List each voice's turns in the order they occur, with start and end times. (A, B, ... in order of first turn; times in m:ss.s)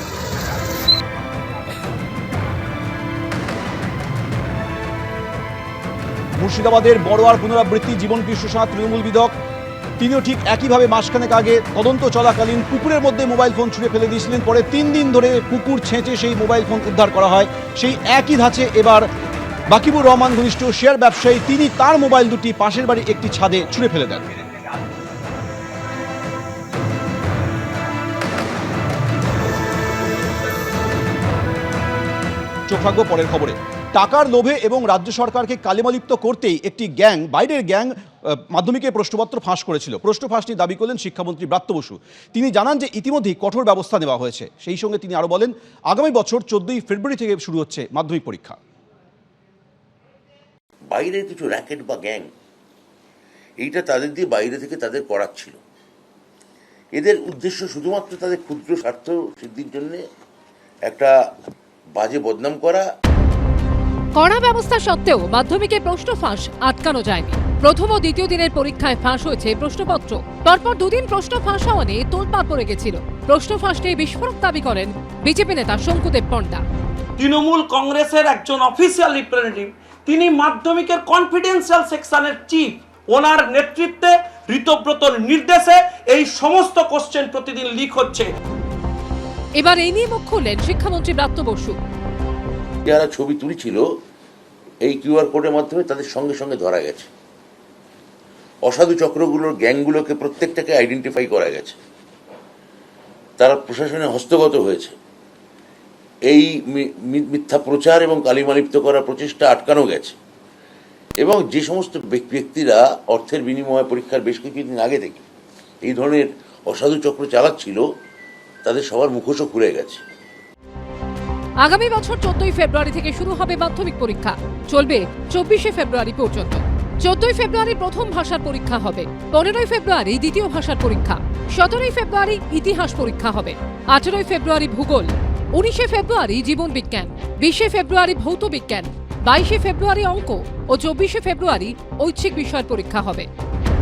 0:06.4-0:09.3 A
0:10.0-0:19.1 A
0:19.7-0:24.2 A
0:32.7-0:48.6 A
0:50.9-0:52.3 B
0:53.6-0:55.6 B
0:57.0-1:00.0 B
1:00.8-1:01.1 B
1:02.0-1:02.8 B
1:04.2-1:16.6 C
1:17.2-1:28.3 D
1:29.6-1:31.8 C
1:32.8-1:33.8 B
1:34.8-1:37.1 B
1:38.6-1:41.8 B
1:43.4-1:45.0 B
1:46.3-1:50.2 B
1:51.2-1:55.2 B
1:55.8-1:57.8 B
1:58.6-2:00.0 B
2:01.6-2:23.3 C